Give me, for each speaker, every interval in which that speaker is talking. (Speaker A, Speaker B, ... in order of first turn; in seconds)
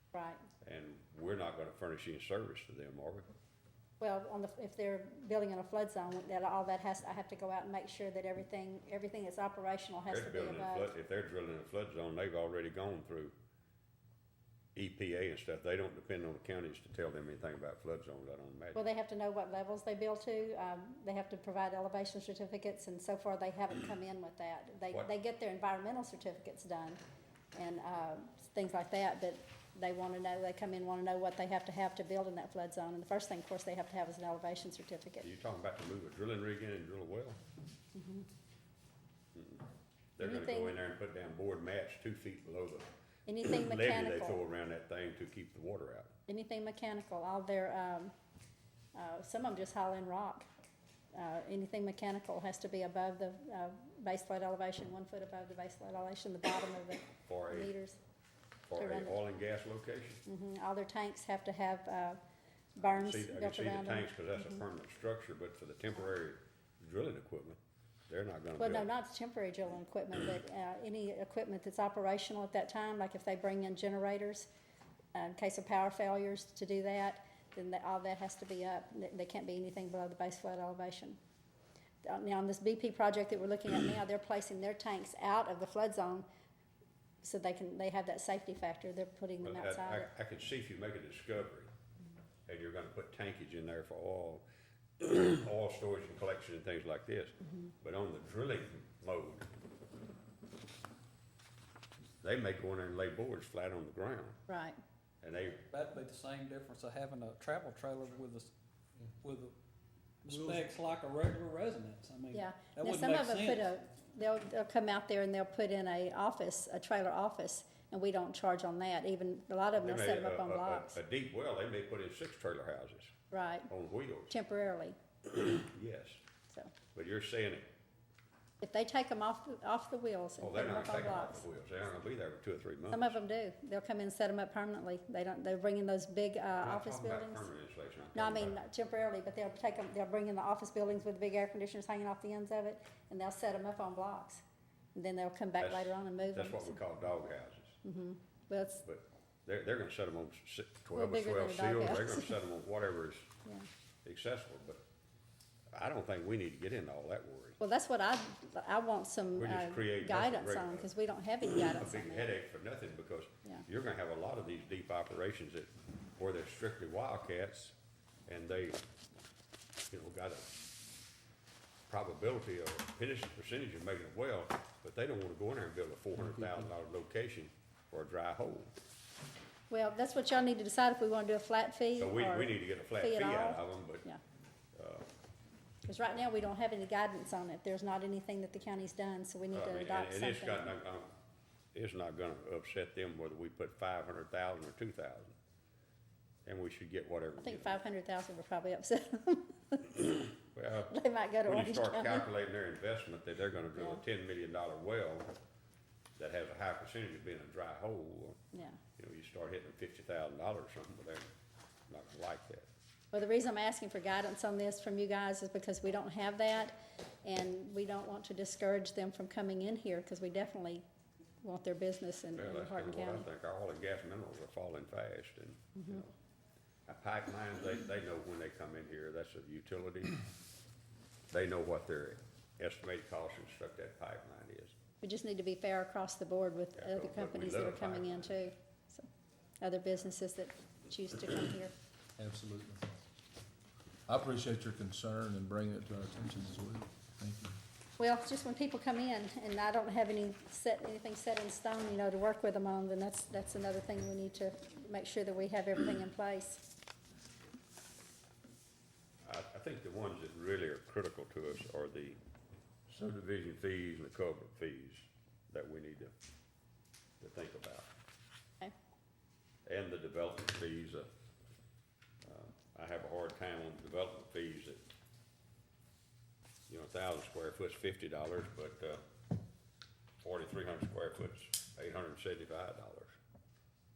Speaker A: 0.1-0.4, 4.0-10.9, 18.8-27.0, 27.6-35.3, 38.0-38.3, 40.2-40.8, 43.3-44.4, 46.3-48.1, 49.0-50.5, 51.1-58.0, 58.8-59.2, 60.3-62.2, 62.8-64.6, 68.6-74.5, 75.2-81.2, 82.0-86.3, 87.2-90.1, 104.5-104.8, 112.3-121.0, 123.3-123.7, 124.3-125.0, 128.6-131.4, 132.9-137.5, 138.2-144.4, 144.9-146.8, 147.8-148.8, 150.9-152.4, 157.6-162.3, 179.7-184.2, 185.8-190.7, 197.4-200.0, 200.9-202.3, 203.8-204.0, 208.5-208.8, 213.1-220.8, 221.4-223.3, 235.0-239.1, 239.6-241.7, 248.0-256.6
Speaker B: 0.6-3.3, 10.1-13.3, 14.8-18.8, 35.2-37.4, 39.3-39.6, 40.2-46.1, 57.2-57.7, 58.7-60.2, 62.8-68.9, 89.4-91.7, 92.5-94.5, 95.0-99.5, 102.2-104.4, 105.2-105.6, 119.8-123.2, 123.7-124.3, 125.4-126.2, 126.9-127.7, 130.4-133.2, 136.6-138.6, 145.6-147.8, 148.8-153.3, 154.1-154.8, 155.7-157.6, 159.3-160.9, 161.5-167.8, 168.3-168.8, 169.9-170.6, 171.9-178.7, 182.0-184.1, 184.8-185.1, 189.5-191.1, 191.7-195.3, 196.5-197.8, 200.4-205.3, 206.2-208.4, 209.0-211.3, 211.9-212.7, 222.3-226.1, 226.9-230.2, 231.3-234.8, 236.8-238.4, 259.2-262.2, 262.9-266.1, 267.2-267.9, 269.7-271.1, 272.2-274.8, 276.7-279.0, 280.2-283.1
Speaker C: 105.7-108.5, 109.0-109.5, 110.2-113.7
Speaker D: 110.3-110.6, 242.2-243.0, 244.1-247.6